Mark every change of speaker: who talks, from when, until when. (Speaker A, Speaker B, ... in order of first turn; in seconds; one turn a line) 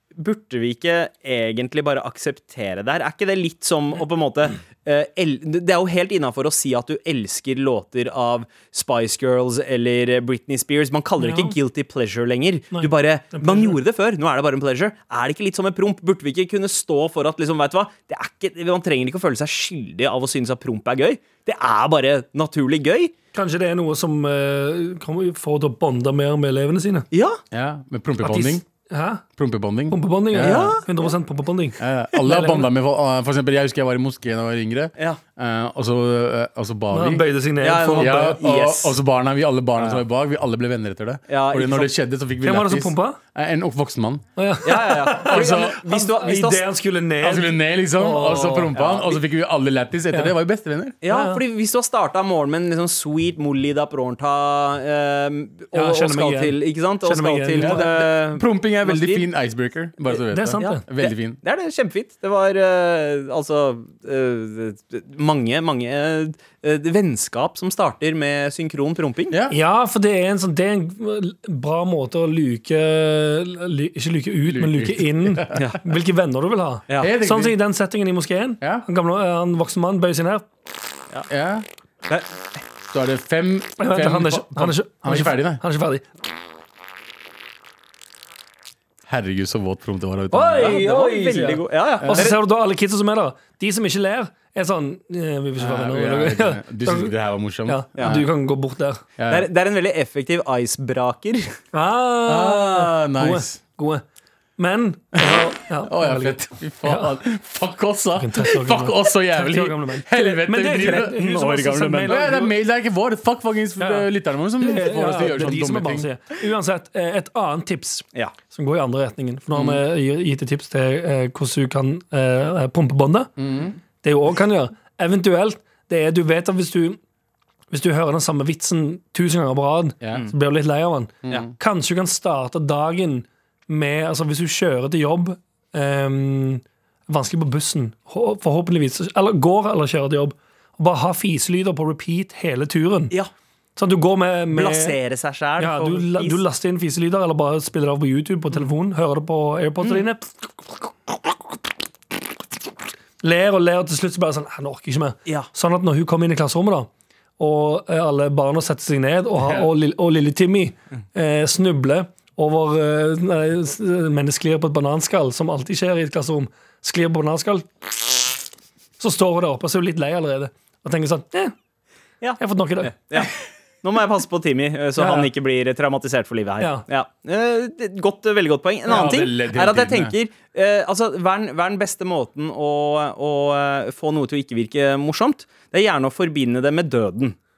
Speaker A: 0.2-23.1
Speaker B: 11.2-11.6
Speaker B: 12.7-13.8
Speaker B: 23.3-27.1
Speaker A: 27.1-27.4
Speaker C: 27.5-28.6
Speaker B: 28.2-29.2
Speaker C: 29.4-30.8
Speaker B: 29.9-32.7
Speaker A: 30.4-30.9
Speaker C: 31.8-37.3
Speaker B: 36.9-38.4
Speaker A: 37.6-39.0
Speaker C: 38.0-44.3
Speaker A: 41.3-41.9
Speaker B: 42.4-43.2
Speaker B: 44.4-48.7
Speaker A: 44.6-46.6
Speaker C: 45.2-45.8
Speaker C: 47.2-51.0
Speaker A: 48.7-49.2
Speaker A: 51.0-59.3
Speaker B: 51.1-51.4
Speaker B: 55.7-57.9
Speaker C: 57.6-61.4
Speaker B: 60.3-60.8
Speaker A: 60.6-69.4
Speaker C: 69.3-69.6
Speaker B: 69.5-80.5
Speaker C: 74.5-75.7
Speaker C: 77.0-77.6
Speaker C: 81.3-81.7
Speaker A: 82.1-82.6
Speaker C: 82.9-85.6
Speaker B: 83.8-86.1
Speaker C: 89.1-90.8
Speaker B: 90.3-97.1
Speaker A: 90.6-92.4
Speaker C: 92.0-92.3
Speaker C: 95.6-98.2
Speaker B: 97.7-99.0
Speaker A: 98.0-98.3
Speaker C: 99.2-99.5
Speaker A: 99.3-101.5
Speaker B: 101.7-104.0
Speaker C: 102.3-103.6
Speaker B: 104.6-107.1
Speaker C: 105.2-111.2
Speaker B: 108.2-112.5
Speaker A: 110.9-112.2
Speaker C: 112.1-116.1
Speaker B: 113.8-123.3
Speaker C: 119.5-119.8
Speaker C: 123.4-123.8
Speaker B: 124.0-127.0
Speaker B: 127.7-143.1
Speaker C: 130.0-130.3
Speaker C: 131.2-131.5
Speaker B: 143.8-145.0
Speaker A: 144.5-146.4
Speaker B: 145.6-151.6
Speaker B: 153.2-168.3
Speaker C: 159.4-159.7
Speaker B: 169.0-171.6
Speaker A: 172.2-187.4
Speaker B: 172.4-173.3
Speaker B: 175.0-175.3
Speaker C: 178.9-180.1